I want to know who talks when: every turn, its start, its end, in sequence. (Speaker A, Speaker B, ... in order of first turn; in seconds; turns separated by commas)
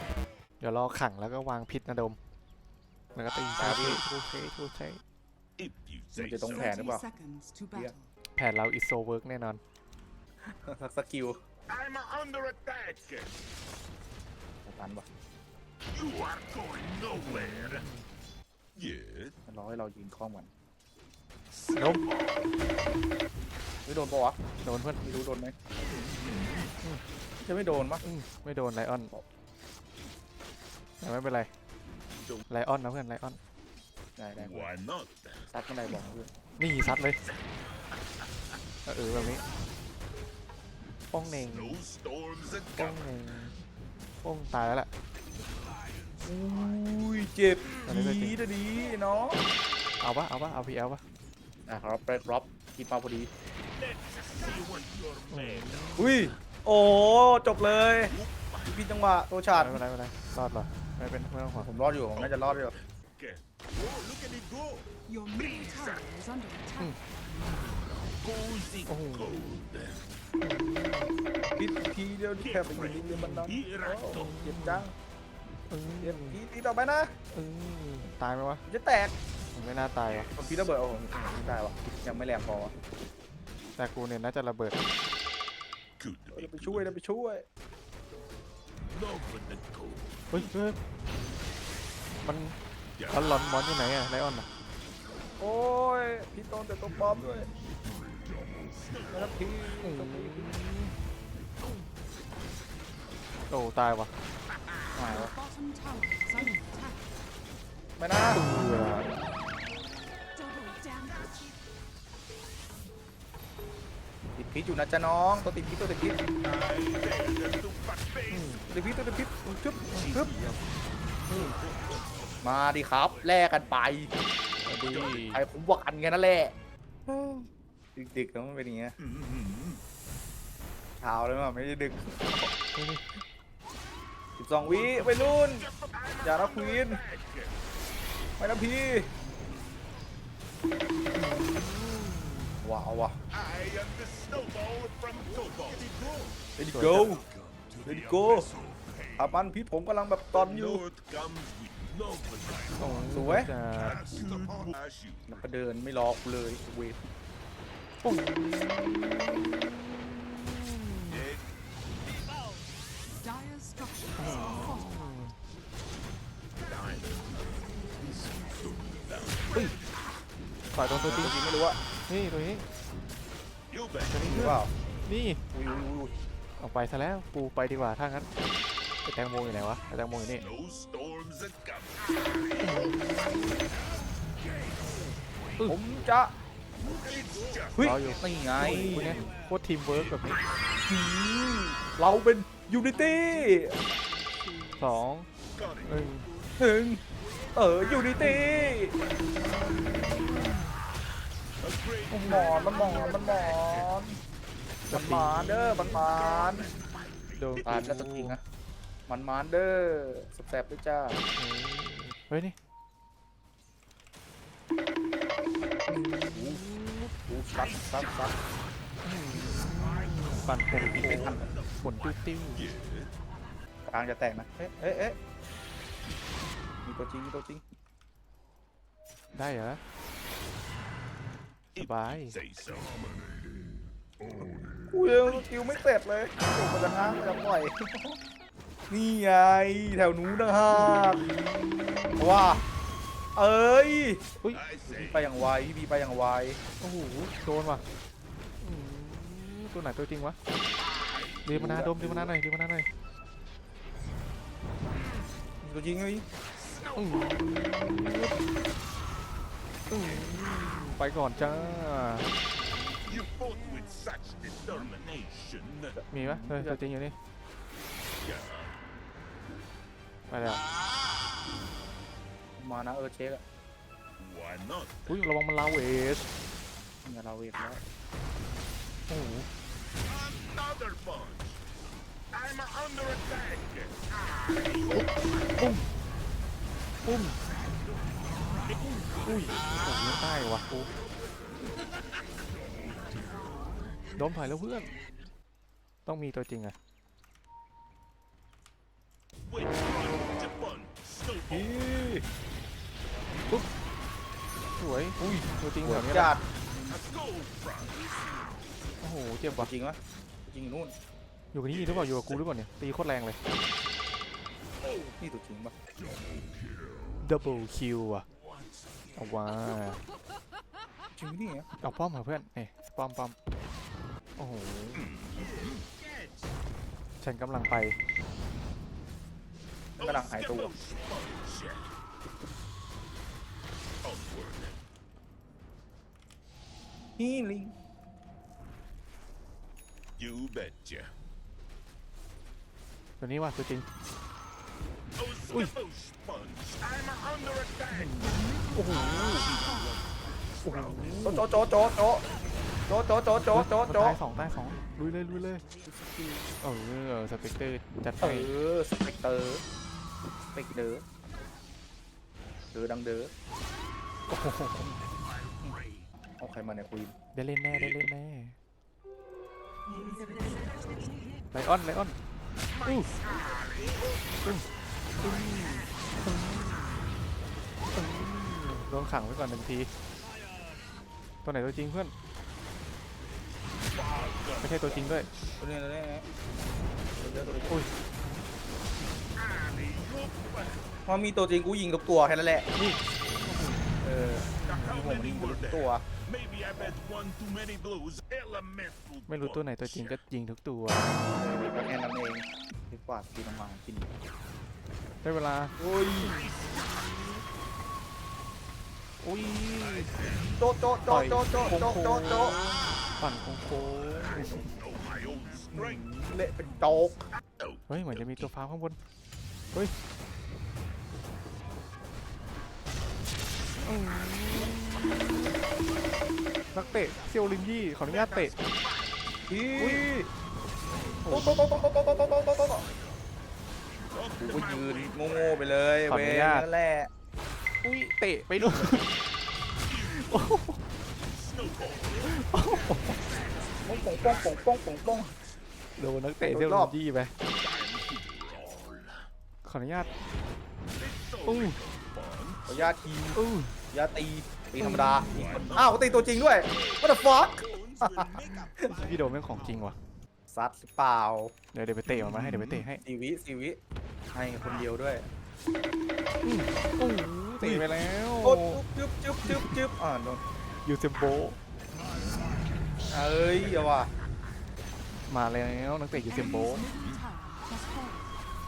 Speaker A: 0.6-2.2, Speaker A: 3.1-5.0, Speaker B: 3.6-4.0, Speaker C: 5.6-6.8, Speaker B: 6.2-7.0, Speaker D: 6.5-8.1, Speaker A: 8.3-9.6, Speaker B: 10.4-11.4, Speaker C: 11.7-13.4, Speaker B: 14.7-15.1, Speaker C: 15.9-17.9, Speaker A: 17.2-18.0, Speaker C: 18.8-19.3, Speaker B: 19.5-20.5, Speaker C: 21.6-22.5, Speaker A: 21.7-22.0, Speaker B: 23.9-24.4, Speaker A: 24.6-25.0, Speaker B: 25.0-25.5, Speaker C: 25.8-26.7, Speaker B: 27.4-28.0, Speaker A: 28.0-29.1, Speaker A: 31.0-31.5, Speaker C: 32.2-32.4, Speaker A: 32.5-33.4, Speaker B: 34.2-34.7, Speaker C: 34.4-35.5, Speaker B: 35.5-36.3, Speaker A: 36.6-37.2, Speaker A: 38.9-39.4, Speaker A: 41.1-41.8, Speaker C: 41.2-43.1, Speaker A: 42.8-43.5, Speaker A: 44.2-44.9, Speaker C: 45.9-46.3, Speaker B: 46.2-49.4, Speaker A: 47.9-48.4, Speaker A: 50.0-51.0, Speaker B: 51.7-53.3, Speaker C: 53.7-56.2, Speaker A: 55.3-56.1, Speaker B: 56.0-58.1, Speaker C: 58.0-58.8, Speaker B: 58.7-59.8, Speaker A: 59.5-61.7, Speaker B: 61.6-62.7, Speaker C: 62.1-66.0, Speaker D: 65.1-67.0, Speaker C: 67.6-70.0, Speaker A: 68.9-69.5, Speaker A: 70.4-71.1, Speaker B: 71.6-74.9, Speaker C: 72.4-74.3, Speaker A: 74.1-74.8, Speaker A: 75.7-76.4, Speaker B: 76.0-77.1, Speaker A: 77.3-78.6, Speaker B: 78.7-79.1, Speaker A: 79.5-80.3, Speaker B: 80.3-82.7, Speaker A: 83.8-84.8, Speaker C: 86.0-86.9, Speaker B: 86.3-87.4, Speaker C: 88.9-90.5, Speaker A: 90.3-90.8, Speaker A: 92.2-92.5, Speaker C: 93.0-93.4, Speaker A: 93.1-94.5, Speaker B: 95.4-97.5, Speaker C: 98.4-99.5, Speaker B: 99.1-100.5, Speaker A: 99.8-100.9, Speaker A: 103.5-104.1, Speaker B: 104.9-105.3, Speaker D: 105.1-107.0, Speaker B: 108.0-108.4, Speaker A: 108.3-109.1, Speaker D: 110.3-111.5, Speaker B: 114.3-116.2, Speaker C: 116.4-118.5, Speaker A: 118.3-118.6, Speaker B: 118.7-120.3, Speaker C: 119.9-123.5, Speaker B: 122.4-124.1, Speaker A: 124.6-125.4, Speaker B: 124.7-126.5, Speaker C: 124.7-125.2, Speaker B: 127.1-127.4, Speaker B: 127.9-128.9, Speaker C: 129.0-129.8, Speaker B: 131.0-132.5, Speaker A: 132.7-133.0, Speaker B: 134.4-135.7, Speaker C: 134.7-137.6, Speaker B: 136.2-137.0, Speaker B: 138.4-139.1, Speaker A: 141.1-142.5, Speaker B: 142.6-143.1, Speaker C: 143.3-149.4, Speaker B: 146.6-147.2, Speaker A: 146.7-147.1, Speaker B: 147.8-148.5, Speaker B: 149.2-150.8, Speaker C: 150.3-153.1, Speaker A: 152.7-154.0, Speaker B: 153.1-153.5, Speaker C: 153.7-155.4, Speaker B: 155.3-157.0, Speaker A: 158.0-161.2, Speaker C: 161.1-161.4, Speaker D: 163.2-164.9, Speaker A: 164.2-165.3, Speaker C: 166.6-169.9, Speaker A: 170.7-171.3, Speaker B: 171.1-171.8, Speaker A: 172.1-172.6, Speaker C: 173.7-174.5, Speaker A: 174.1-175.4, Speaker B: 174.2-174.7, Speaker B: 175.5-176.1, Speaker A: 176.6-178.3, Speaker A: 179.0-180.4, Speaker C: 180.4-185.7, Speaker A: 182.6-183.5, Speaker B: 185.6-186.3, Speaker C: 186.9-188.1, Speaker B: 187.8-189.3, Speaker A: 187.8-190.4, Speaker C: 188.8-189.2, Speaker C: 189.9-190.6, Speaker B: 190.9-193.8, Speaker D: 193.0-194.9, Speaker A: 194.8-195.3, Speaker C: 195.5-196.2, Speaker A: 195.8-196.3, Speaker B: 196.6-197.0, Speaker B: 197.5-198.9, Speaker C: 198.0-198.4, Speaker A: 198.2-198.7, Speaker A: 200.2-200.5, Speaker C: 201.6-203.9, Speaker B: 202.1-204.2, Speaker A: 204.9-205.9, Speaker B: 204.9-206.7, Speaker C: 205.8-207.9, Speaker A: 207.4-208.3, Speaker B: 207.6-208.4, Speaker B: 209.1-211.2, Speaker A: 211.3-212.5, Speaker A: 215.9-217.1, Speaker B: 216.3-218.3, Speaker C: 217.5-218.3, Speaker A: 219.0-222.7, Speaker C: 219.4-223.1, Speaker B: 220.7-221.5, Speaker B: 223.8-225.2, Speaker B: 226.8-227.6, Speaker A: 229.3-229.8, Speaker C: 231.7-233.4, Speaker A: 231.8-232.3, Speaker B: 234.9-238.2, Speaker C: 235.2-235.7, Speaker B: 238.9-241.3, Speaker A: 240.7-242.2, Speaker B: 242.2-242.6, Speaker B: 243.3-244.2, Speaker C: 244.5-245.3, Speaker B: 244.9-246.6, Speaker A: 246.8-247.8, Speaker A: 248.6-250.4, Speaker C: 250.8-251.5, Speaker A: 251.4-252.9, Speaker B: 251.5-252.3, Speaker B: 255.6-256.2, Speaker C: 256.5-257.6, Speaker A: 256.9-258.4, Speaker A: 259.9-262.3, Speaker C: 263.0-266.0, Speaker A: 266.1-267.1, Speaker B: 266.1-266.8, Speaker C: 268.2-268.7, Speaker A: 270.3-270.6, Speaker B: 272.6-273.4, Speaker C: 274.2-275.3, Speaker A: 275.1-276.3, Speaker B: 277.0-277.8, Speaker A: 279.1-279.5, Speaker C: 280.0-281.6, Speaker C: 282.3-285.1, Speaker A: 285.6-285.8, Speaker A: 287.0-287.4, Speaker C: 287.5-288.0, Speaker C: 288.6-289.6, Speaker A: 288.8-290.9, Speaker A: 294.1-294.9, Speaker A: 296.0-296.7, Speaker C: 299.5-301.9, Speaker B: 301.5-302.2, Speaker A: 304.8-306.4, Speaker B: 305.2-306.4, Speaker C: 306.9-308.0, Speaker A: 309.0-309.7, Speaker B: 309.5-310.9, Speaker A: 311.5-313.4, Speaker C: 311.7-312.4, Speaker C: 314.8-315.1, Speaker B: 315.2-315.7, Speaker C: 316.0-317.1, Speaker A: 317.2-318.2, Speaker A: 319.1-320.0, Speaker B: 321.1-321.7, Speaker A: 321.8-323.3, Speaker A: 324.4-325.1, Speaker C: 324.9-326.1, Speaker A: 327.2-327.9, Speaker B: 330.0-330.7, Speaker C: 330.0-331.9, Speaker C: 334.0-334.8, Speaker B: 337.2-337.7, Speaker C: 340.2-341.1, Speaker A: 343.2-343.9, Speaker C: 345.2-348.3, Speaker A: 347.9-349.5, Speaker D: 348.2-349.2, Speaker C: 348.9-351.3, Speaker A: 350.6-351.4, Speaker B: 351.2-352.2, Speaker B: 352.9-354.2, Speaker A: 353.3-355.6, Speaker A: 356.6-358.5, Speaker B: 358.2-359.6, Speaker B: 360.5-361.0, Speaker B: 362.7-363.3, Speaker A: 364.3-364.9, Speaker C: 365.4-366.0, Speaker B: 366.4-367.1, Speaker A: 367.3-368.6, Speaker A: 371.5-372.2, Speaker C: 372.7-374.6, Speaker A: 372.8-373.1, Speaker C: 375.2-375.9, Speaker A: 375.2-377.0, Speaker A: 377.9-379.9, Speaker A: 381.4-382.1, Speaker C: 383.9-385.0, Speaker A: 384.6-385.3, Speaker B: 385.6-386.2, Speaker B: 387.2-387.8, Speaker C: 389.3-390.9, Speaker B: 391.1-392.7, Speaker A: 392.7-393.9, Speaker B: 394.0-396.0, Speaker A: 394.6-394.9, Speaker C: 394.6-400.2, Speaker A: 399.3-401.3, Speaker B: 401.3-404.1, Speaker A: 405.2-406.8, Speaker B: 405.8-406.4, Speaker C: 406.2-407.1, Speaker A: 409.2-410.1, Speaker C: 409.9-410.5, Speaker B: 410.5-412.7, Speaker A: 411.1-414.7, Speaker C: 414.1-416.0, Speaker B: 415.7-417.1, Speaker C: 417.6-418.4, Speaker A: 417.9-419.0, Speaker A: 423.8-425.5, Speaker A: 426.7-428.5, Speaker C: 428.1-429.3, Speaker B: 429.5-430.3, Speaker A: 429.8-430.0, Speaker A: 431.2-431.6, Speaker B: 431.3-432.8, Speaker C: 434.1-435.7, Speaker B: 434.4-437.1, Speaker A: 436.1-436.7, Speaker A: 437.8-439.1, Speaker C: 439.9-440.6, Speaker A: 440.0-440.8, Speaker C: 441.3-445.0, Speaker A: 442.2-443.2, Speaker B: 443.8-445.4, Speaker A: 446.0-447.3, Speaker B: 446.4-446.9, Speaker C: 447.5-449.3, Speaker A: 449.6-450.1, Speaker C: 450.9-452.8, Speaker A: 451.4-451.8, Speaker B: 452.7-458.9, Speaker A: 453.3-453.7, Speaker A: 454.8-455.3, Speaker C: 455.3-459.8, Speaker A: 458.9-459.9, Speaker B: 460.5-461.5, Speaker A: 461.7-463.0, Speaker C: 462.1-462.9, Speaker B: 463.0-463.8, Speaker B: 464.3-465.3, Speaker A: 466.4-468.8, Speaker B: 467.6-467.9, Speaker B: 468.4-470.4, Speaker A: 469.4-469.8, Speaker A: 470.8-471.6, Speaker B: 473.1-474.1, Speaker A: 475.3-476.9, Speaker C: 476.8-477.2, Speaker D: 476.8-478.2